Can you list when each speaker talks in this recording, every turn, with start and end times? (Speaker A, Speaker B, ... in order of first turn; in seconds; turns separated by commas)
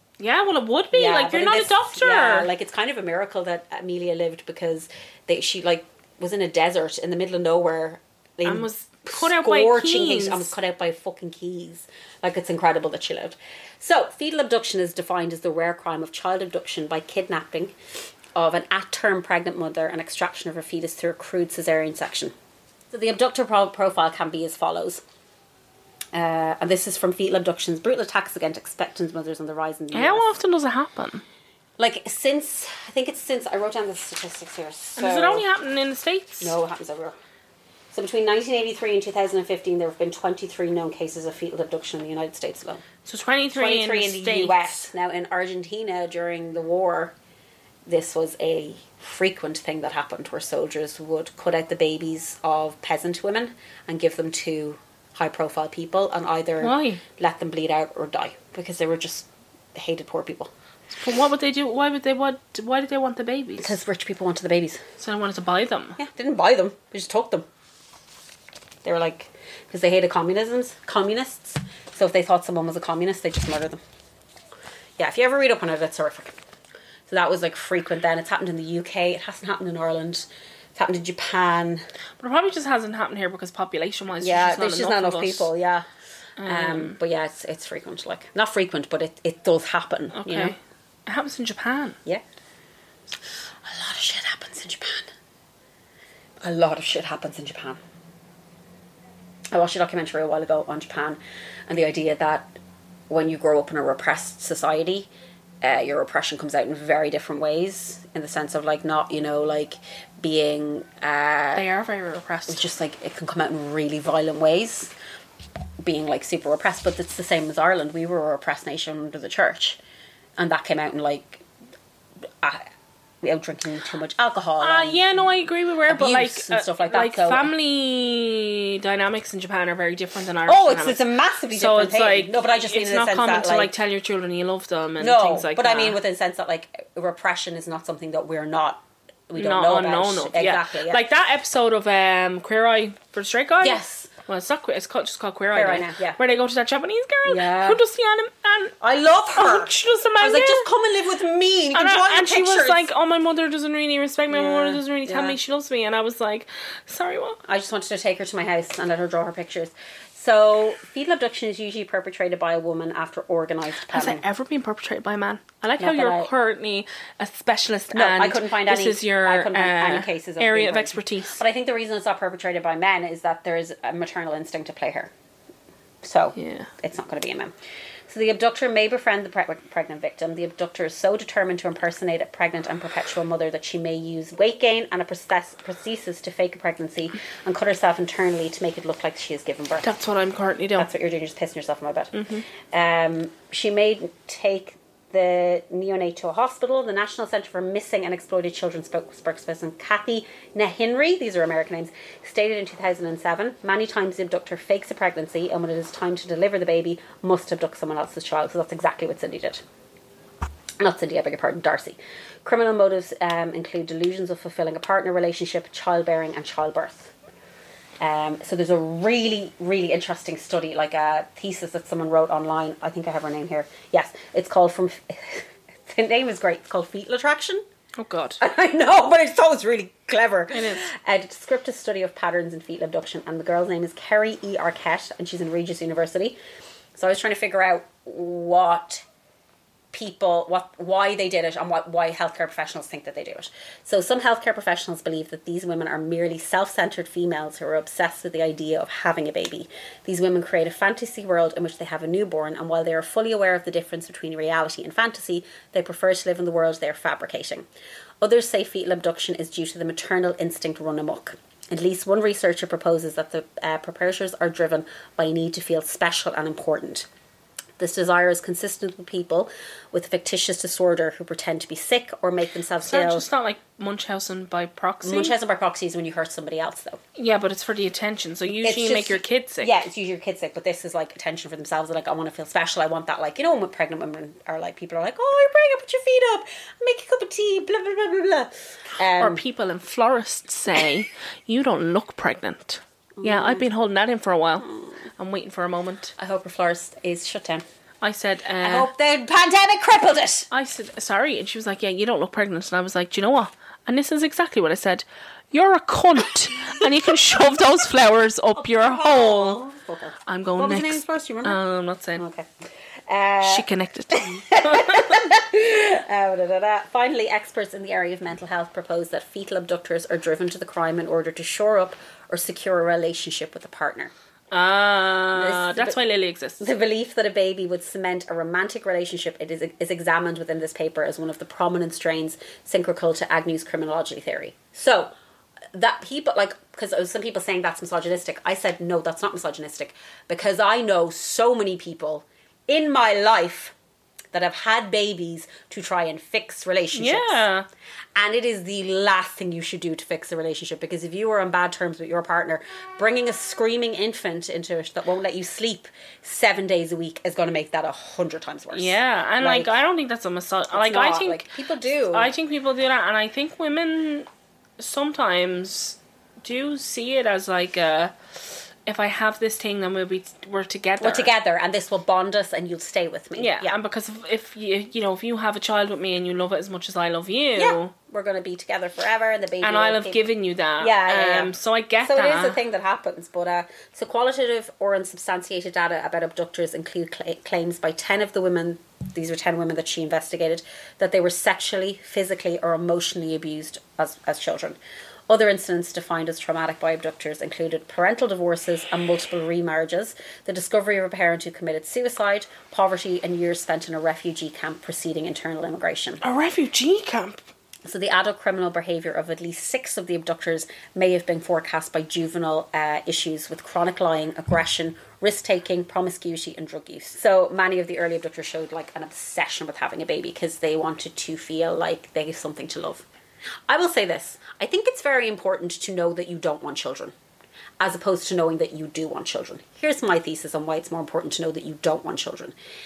Speaker A: 0.2-2.5, Speaker B: 0.9-17.7, Speaker A: 8.4-10.5, Speaker B: 18.3-22.3, Speaker B: 22.9-25.0, Speaker B: 26.1-30.3, Speaker A: 29.9-31.2, Speaker B: 31.8-35.4, Speaker A: 35.0-36.5, Speaker B: 36.4-37.1, Speaker B: 37.9-42.8, Speaker A: 43.0-44.9, Speaker B: 43.5-47.1, Speaker B: 47.9-60.5, Speaker A: 56.6-57.0, Speaker A: 60.9-63.8, Speaker B: 63.6-64.8, Speaker A: 65.0-66.0, Speaker B: 66.0-67.5, Speaker B: 68.8-73.8, Speaker B: 75.0-76.3, Speaker B: 77.1-81.8, Speaker A: 82.2-85.5, Speaker B: 84.2-85.9, Speaker A: 86.4-87.0, Speaker B: 86.4-90.5, Speaker A: 90.1-92.0, Speaker B: 93.6-95.1, Speaker B: 96.4-97.8, Speaker B: 99.5-102.5, Speaker B: 103.1-105.1, Speaker B: 105.6-111.7, Speaker A: 111.5-112.6, Speaker B: 112.5-114.9, Speaker B: 115.8-119.8, Speaker B: 120.4-121.4, Speaker B: 122.4-122.7, Speaker B: 123.2-125.0, Speaker A: 124.6-136.0, Speaker B: 125.9-127.5, Speaker B: 130.4-133.7, Speaker B: 135.0-141.0, Speaker A: 139.4-148.7, Speaker B: 143.6-144.1, Speaker B: 145.5-146.2, Speaker B: 147.2-147.8, Speaker B: 148.8-152.9, Speaker A: 149.3-150.7, Speaker A: 151.7-157.4, Speaker B: 154.3-155.4, Speaker B: 157.4-164.2, Speaker A: 163.9-171.4, Speaker B: 165.8-166.3, Speaker B: 167.9-175.1, Speaker B: 176.0-177.5, Speaker A: 176.3-176.7, Speaker B: 178.1-189.9, Speaker A: 189.8-190.9, Speaker B: 190.8-192.1, Speaker A: 192.1-192.4, Speaker B: 192.7-209.6, Speaker B: 210.8-217.1, Speaker B: 218.0-227.6, Speaker A: 228.0-228.4, Speaker B: 228.4-236.4, Speaker A: 230.5-230.9, Speaker B: 236.9-239.0, Speaker B: 239.9-257.6, Speaker B: 258.2-267.1, Speaker B: 267.8-273.3, Speaker A: 272.8-275.3, Speaker B: 275.0-277.0, Speaker A: 277.1-279.7, Speaker B: 278.6-289.4, Speaker A: 289.2-296.1, Speaker B: 293.2-293.6, Speaker B: 296.2-297.6, Speaker A: 298.0-298.9, Speaker B: 298.6-300.5, Speaker A: 300.5-309.6, Speaker B: 308.6-311.6, Speaker A: 310.3-312.2, Speaker B: 312.2-312.5, Speaker B: 313.1-324.1, Speaker A: 313.4-315.2, Speaker A: 324.5-326.7, Speaker B: 325.3-325.9, Speaker B: 326.6-335.1, Speaker B: 335.7-343.7, Speaker B: 344.3-347.4, Speaker A: 346.9-347.7, Speaker B: 348.1-359.7, Speaker A: 358.7-361.5, Speaker B: 360.7-362.3, Speaker A: 362.1-364.3, Speaker A: 364.8-368.1, Speaker A: 368.8-371.3, Speaker B: 371.0-373.7, Speaker A: 373.4-377.9, Speaker B: 377.6-380.2, Speaker A: 379.6-382.6, Speaker B: 380.8-406.2, Speaker A: 406.2-407.4, Speaker B: 407.8-423.1, Speaker B: 423.7-427.1, Speaker B: 427.8-432.5